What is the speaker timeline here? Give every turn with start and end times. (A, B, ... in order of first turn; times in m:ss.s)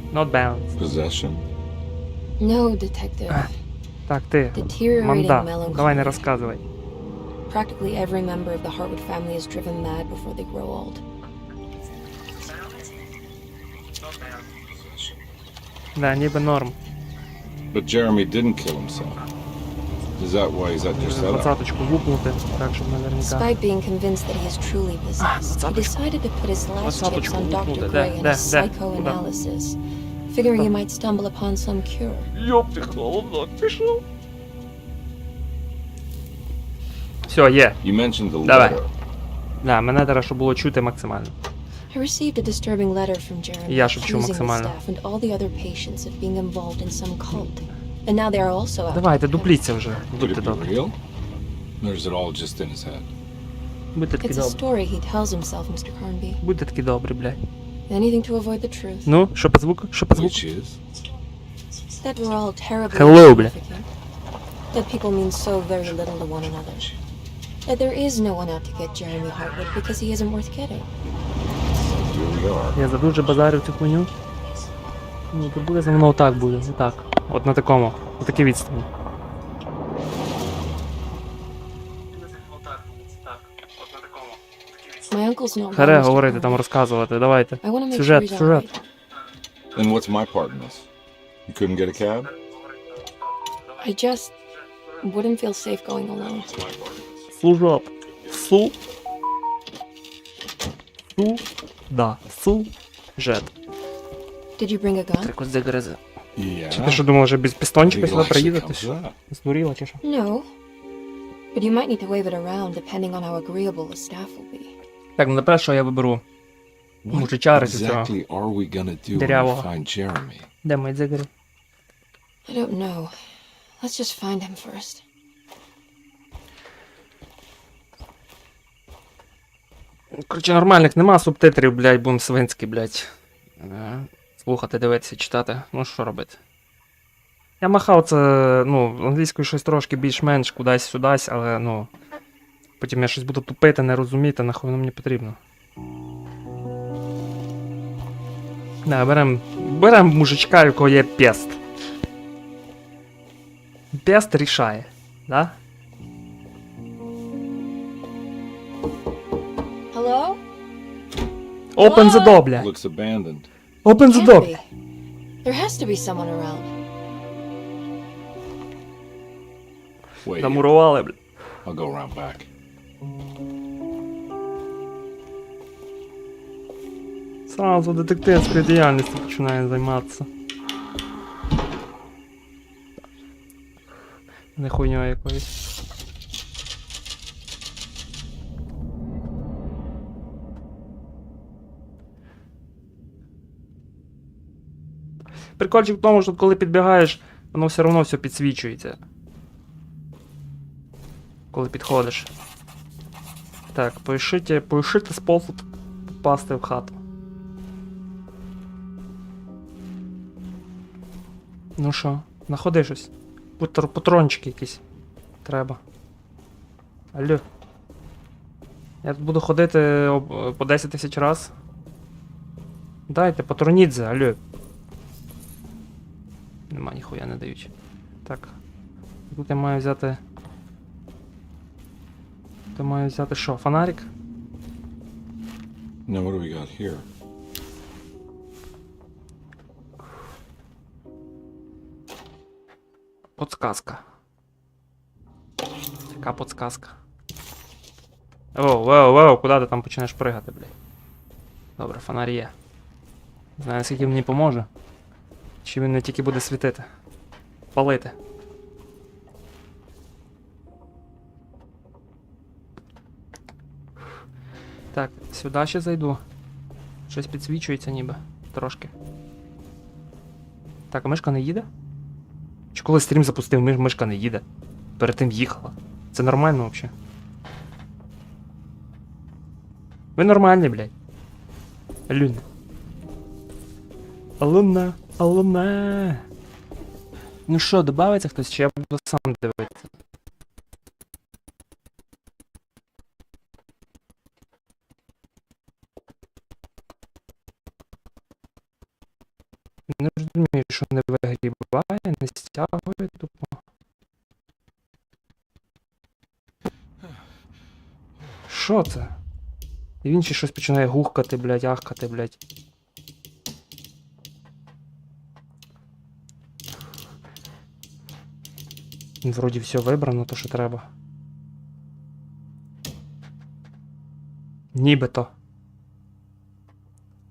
0:00.1-0:00.8 A
0:00.8-0:01.4 B
0:02.4-0:03.5 C
0:04.1-0:06.6 A
0:04.5-0:06.2 C
0:07.5-0:11.0 C
0:14.8-0:15.1 B
0:15.9-0:16.8 A
0:17.7-0:19.2 B
0:20.2-0:21.5 B
0:20.9-0:23.6 A
0:23.2-0:29.8 C
0:25.2-0:26.0 A
0:26.8-0:29.2 A
0:30.3-0:32.3 C
0:32.3-0:34.0 A
0:37.3-0:37.8 A
0:37.8-0:38.9 B
0:38.4-0:38.8 A
0:39.6-0:41.3 A
0:41.9-0:49.6 C
0:43.6-0:44.8 A
0:48.9-0:50.7 A
0:50.2-0:51.0 B
0:51.8-0:53.1 B
0:53.9-0:54.6 A
0:54.2-0:56.4 C
0:56.4-0:57.4 A
0:57.9-0:59.1 C
0:59.0-1:00.4 A
1:00.1-1:00.8 B
1:02.0-1:03.9 C
1:02.9-1:03.5 A
1:04.7-1:06.9 C
1:07.6-1:10.9 C
1:11.7-1:12.8 B
1:12.8-1:14.1 A
1:15.3-1:18.9 A
1:25.1-1:26.6 C
1:25.7-1:28.7 A
1:27.6-1:28.8 C
1:29.7-1:30.9 B
1:31.4-1:32.3 B
1:33.8-1:34.4 C
1:35.0-1:36.5 C
1:36.4-1:37.2 B
1:37.3-1:38.7 A
1:41.1-1:43.5 A
1:44.6-1:45.3 C
1:45.2-1:46.0 A
1:46.4-1:47.0 B
1:46.7-1:50.0 A
1:47.8-1:49.2 B
1:50.0-1:50.5 C
1:51.5-1:54.7 C
1:55.2-1:56.2 A
1:57.0-2:00.5 B
1:57.1-1:58.1 A
1:59.1-1:59.7 A
2:00.6-2:01.3 A
2:02.4-2:03.1 C
2:03.8-2:05.0 C
2:10.1-2:16.4 A
2:17.6-2:21.9 A
2:22.8-2:25.4 A
2:28.8-2:31.6 A
2:33.9-2:35.6 A
2:39.9-2:40.4 C
2:41.7-2:42.7 A
2:41.8-2:42.4 C
2:42.5-2:43.5 B
2:43.8-2:44.5 A
2:44.1-2:44.6 C
2:45.4-2:46.7 C
2:50.2-2:50.6 B
2:50.4-2:51.2 A
2:51.6-2:52.5 B
2:57.5-3:00.3 A
3:04.6-3:05.6 A
3:15.6-3:19.0 A
3:21.5-3:22.3 A
3:23.7-3:27.0 A
3:31.8-3:34.8 A
3:35.4-3:35.8 A
3:37.1-3:37.4 A
3:39.0-3:41.5 A
3:43.1-3:44.4 A
3:46.7-3:47.7 A
3:48.2-3:48.6 A
3:49.3-3:50.2 A
3:52.7-3:54.1 A
3:56.0-3:57.1 B
4:03.4-4:04.0 A
4:06.1-4:07.0 A
4:08.5-4:10.7 A
4:11.8-4:12.5 A
4:13.6-4:14.7 A
4:15.6-4:16.9 A
4:17.7-4:18.2 A
4:24.9-4:26.2 A
4:27.1-4:28.9 A
4:30.9-4:31.7 A
4:32.7-4:34.4 A
4:35.0-4:36.9 A
4:40.2-4:40.9 A
4:42.1-4:42.4 A
4:44.4-4:46.2 A
4:47.5-4:49.9 A
4:59.9-5:03.6 A
5:08.5-5:09.1 A
5:10.0-5:12.4 A
5:19.2-5:20.9 A
5:24.7-5:25.3 A